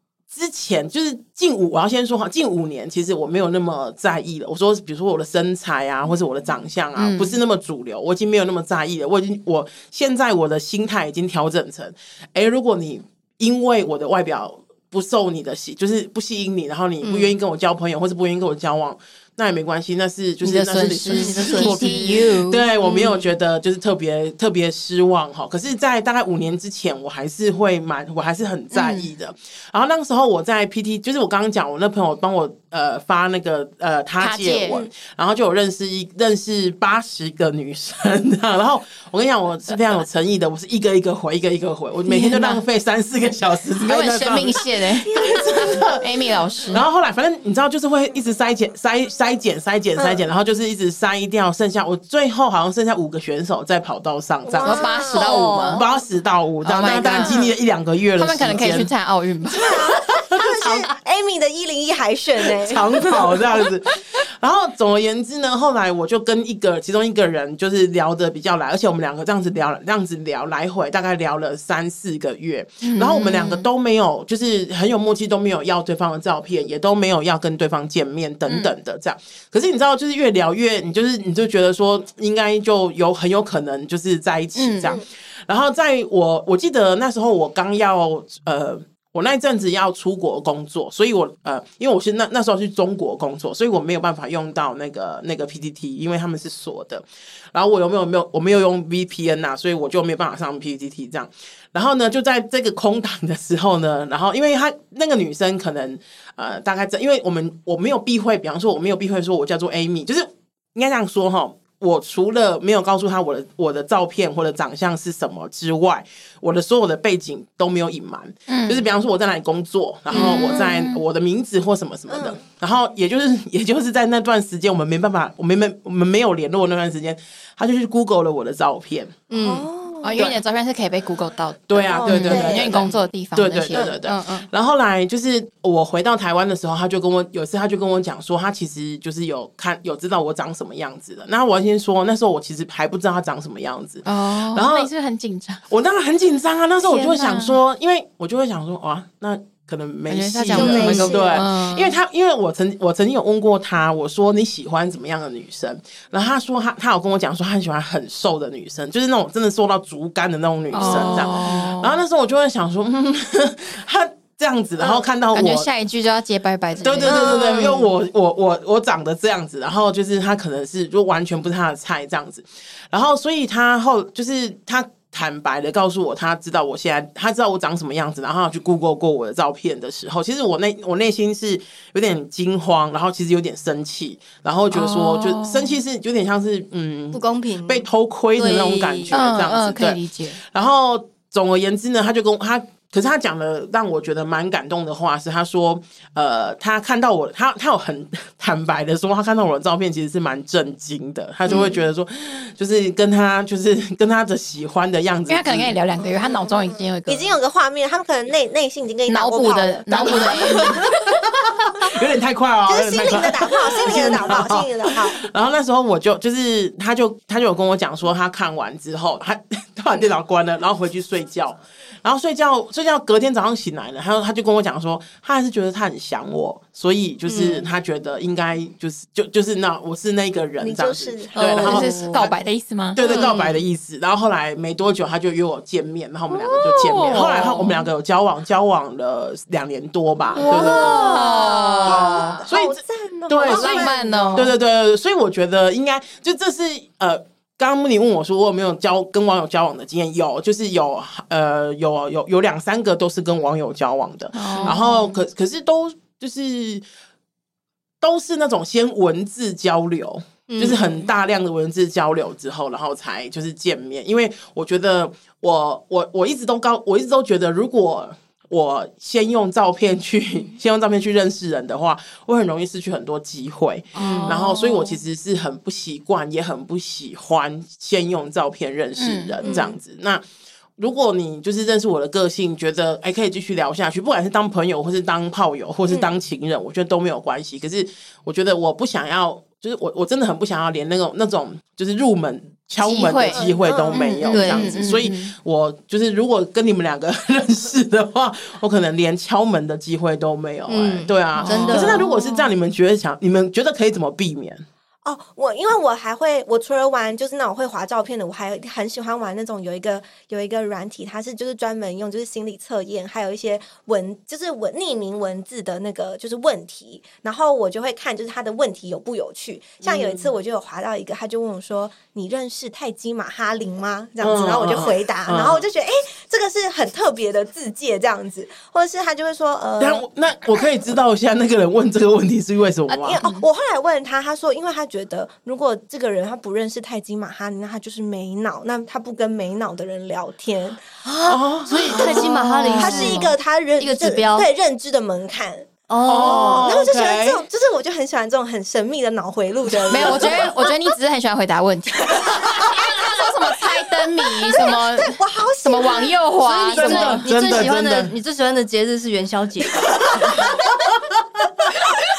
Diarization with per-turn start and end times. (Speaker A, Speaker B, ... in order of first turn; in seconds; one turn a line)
Speaker A: 0.3-46.1
Speaker B: 7.0-7.4
Speaker C: 17.0-17.3
Speaker B: 20.4-23.1
Speaker C: 21.1-22.5
Speaker B: 28.7-29.1
Speaker B: 34.2-34.8
Speaker B: 42.1-42.6
Speaker B: 43.8-46.8
Speaker D: 45.0-45.9
Speaker A: 46.7-58.9
Speaker D: 50.0-50.2
Speaker D: 54.4-55.3
Speaker B: 54.6-55.8
Speaker C: 55.1-55.9
Speaker B: 56.6-57.5
Speaker D: 57.1-57.4
Speaker B: 58.1-59.8
Speaker D: 59.5-63.6
Speaker A: 60.0-60.8
Speaker A: 62.5-129.2
Speaker B: 72.8-73.7
Speaker B: 78.5-78.7
Speaker B: 84.5-85.0
Speaker B: 118.5-118.8
Speaker C: 120.1-120.4
Speaker B: 120.1-121.0
Speaker D: 122.1-122.4
Speaker C: 129.3-129.7
Speaker D: 129.3-130.3
Speaker B: 130.0-134.5
Speaker A: 131.7-144.9
Speaker D: 131.9-132.9
Speaker B: 144.1-145.6
Speaker A: 145.7-165.7
Speaker B: 146.8-147.6
Speaker B: 150.1-151.9
Speaker D: 150.5-151.4
Speaker C: 150.5-151.1
Speaker B: 160.7-162.0
Speaker C: 160.8-161.2
Speaker B: 165.3-167.8
Speaker A: 166.8-205.8
Speaker D: 167.1-167.7
Speaker B: 184.7-185.8
Speaker C: 187.1-189.2
Speaker B: 189.1-190.4
Speaker B: 201.5-201.8
Speaker B: 205.3-207.3
Speaker D: 206.0-210.9
Speaker B: 209.1-210.8
Speaker A: 209.9-232.3
Speaker D: 212.7-215.2
Speaker D: 230.6-231.9
Speaker B: 231.4-233.3
Speaker C: 231.4-232.3
Speaker A: 232.9-241.2
Speaker C: 233.0-233.6
Speaker B: 236.3-237.9
Speaker D: 240.3-244.5
Speaker B: 240.3-242.4
Speaker C: 240.6-240.9
Speaker A: 241.8-256.8
Speaker B: 243.4-244.5
Speaker B: 254.3-255.2
Speaker A: 258.0-280.2
Speaker C: 260.5-260.8
Speaker C: 273.9-274.4
Speaker B: 274.0-275.0
Speaker B: 279.0-279.5
Speaker A: 280.8-304.6
Speaker B: 292.8-295.3
Speaker D: 293.3-294.2
Speaker C: 294.3-294.7
Speaker C: 300.7-302.1
Speaker B: 301.3-302.5
Speaker D: 305.0-330.0
Speaker A: 319.8-320.3
Speaker A: 324.2-325.6
Speaker A: 329.8-333.2
Speaker B: 332.9-333.4
Speaker D: 333.0-341.0
Speaker C: 341.0-344.5
Speaker A: 341.3-342.3
Speaker D: 341.9-350.7
Speaker B: 341.9-343.3
Speaker C: 345.9-346.7
Speaker A: 346.1-347.4
Speaker B: 349.9-357.3
Speaker D: 352.1-353.1
Speaker D: 354.4-356.1
Speaker C: 356.4-360.5
Speaker A: 356.7-358.1
Speaker A: 360.1-360.4